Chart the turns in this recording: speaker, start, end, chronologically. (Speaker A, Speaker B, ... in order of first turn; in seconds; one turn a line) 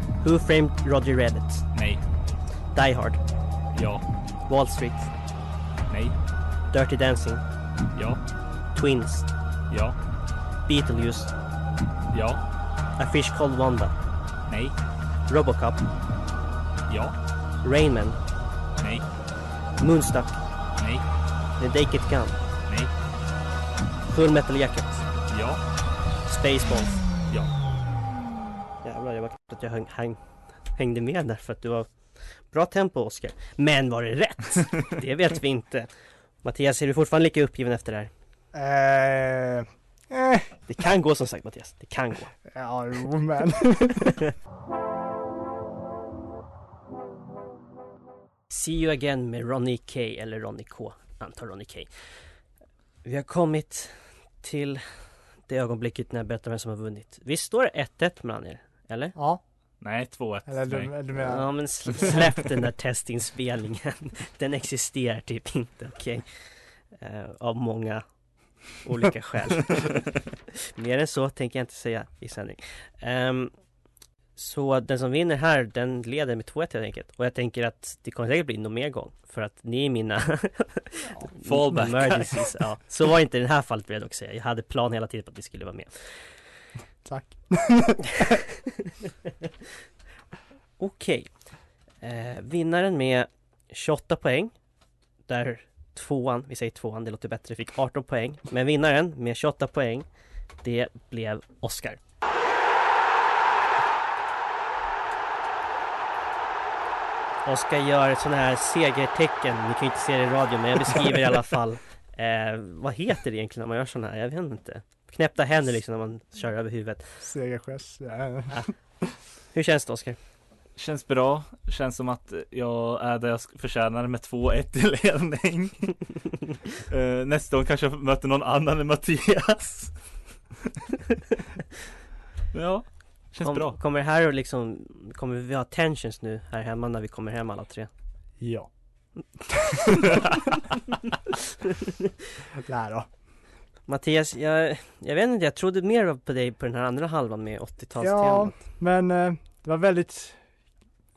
Speaker A: 0.2-1.6
Speaker B: 1.7-2.0
Speaker A: 2.7-3.2
Speaker B: 3.7-4.0
Speaker A: 4.5-5.1
Speaker B: 5.9-6.2
Speaker A: 6.7-7.4
Speaker B: 7.9-8.2
Speaker A: 8.7-9.3
Speaker B: 9.7-9.9
Speaker A: 10.7-11.3
Speaker B: 12.1-12.4
Speaker A: 13.0-13.9
Speaker B: 14.5-14.7
Speaker A: 15.3-15.8
Speaker B: 16.9-17.1
Speaker A: 17.6-18.2
Speaker B: 18.8-19.1
Speaker A: 19.8-20.4
Speaker B: 20.8-21.1
Speaker A: 21.6-22.4
Speaker A: 24.1-25.1
Speaker B: 25.3-25.6
Speaker A: 26.3-27.0
Speaker A: 28.8-30.2
Speaker A: 30.8-31.9
Speaker A: 32.5-35.9
Speaker A: 36.4-38.1
Speaker C: 38.5-40.5
Speaker A: 40.7-42.3
Speaker C: 42.5-44.2
Speaker A: 48.5-51.9
Speaker A: 53.0-54.8
Speaker A: 55.5-59.1
Speaker C: 59.1-59.4
Speaker B: 59.8-60.9
Speaker C: 60.5-61.9
Speaker A: 61.1-66.2
Speaker A: 67.0-68.0
Speaker A: 68.8-70.0
Speaker A: 70.8-73.5
Speaker A: 74.4-85.9
Speaker B: 81.4-82.5
Speaker C: 87.0-88.4
Speaker A: 90.8-91.3
Speaker A: 92.0-94.5
Speaker A: 95.3-100.1
Speaker A: 100.6-102.0
Speaker A: 107.4-117.1
Speaker C: 117.2-119.1
Speaker A: 119.5-120.2
Speaker B: 120.8-126.0
Speaker B: 126.9-129.9
Speaker B: 132.5-133.8
Speaker A: 133.4-137.9
Speaker C: 138.4-138.7
Speaker C: 139.5-140.2
Speaker C: 142.6-143.1
Speaker A: 143.9-148.6
Speaker C: 148.0-150.4